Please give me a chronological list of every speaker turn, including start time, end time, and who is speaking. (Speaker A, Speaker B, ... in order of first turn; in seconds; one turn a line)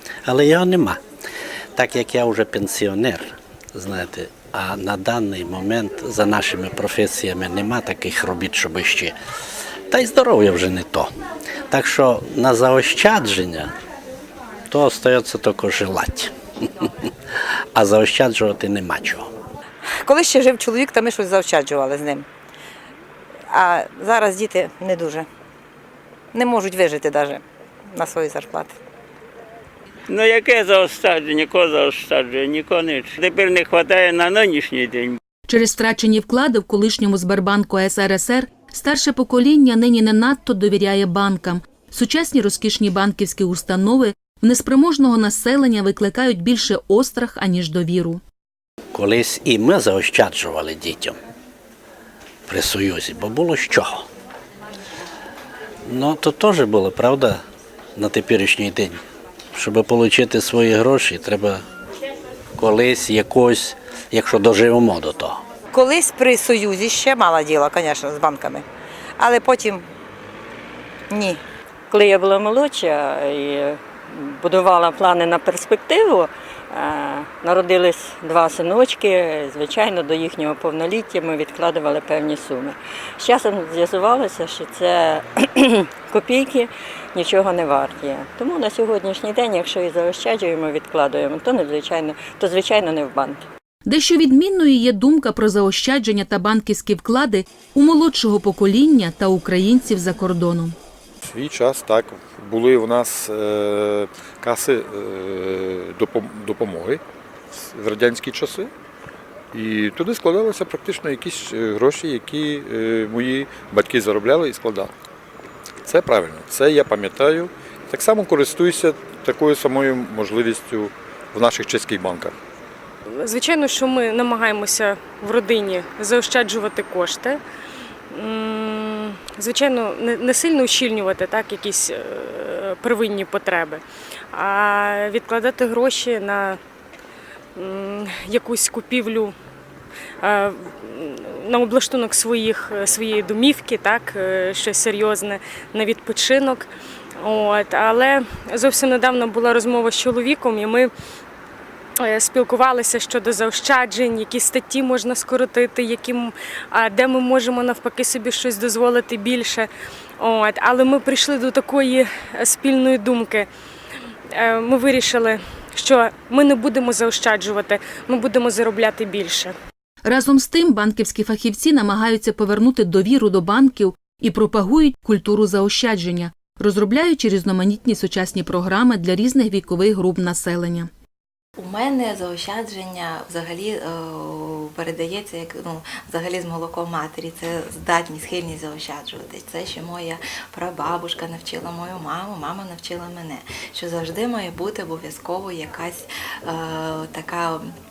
Speaker A: 0.3-1.0
Speaker A: 1.8-3.2
Speaker A: 3.8-9.1
Speaker A: 9.9-11.1
Speaker A: 11.7-13.7
Speaker A: 14.7-16.3
Speaker A: 17.8-19.2
Speaker B: 20.0-22.3
Speaker B: 23.5-25.3
Speaker B: 26.3-28.8
Speaker C: 30.1-35.2
Speaker D: 35.5-48.2
Speaker A: 49.0-51.1
Speaker A: 52.5-54.0
Speaker A: 55.9-57.4
Speaker A: 58.0-59.0
Speaker A: 59.5-61.6
Speaker A: 62.6-65.3
Speaker B: 65.7-68.7
Speaker B: 69.2-69.9
Speaker B: 71.1-71.4
Speaker E: 71.9-93.5
Speaker D: 93.9-100.8
Speaker F: 101.3-107.0
Speaker F: 107.5-108.7
Speaker F: 109.5-114.9
Speaker F: 115.8-122.3
Speaker G: 123.2-127.4
Speaker G: 128.1-133.8
Speaker G: 134.3-136.6
Speaker G: 137.6-139.3
Speaker G: 140.2-146.7
Speaker G: 147.2-150.9
Speaker G: 152.0-163.5
Speaker G: 164.3-169.5
Speaker D: 170.1-180.9
Speaker H: 181.6-197.7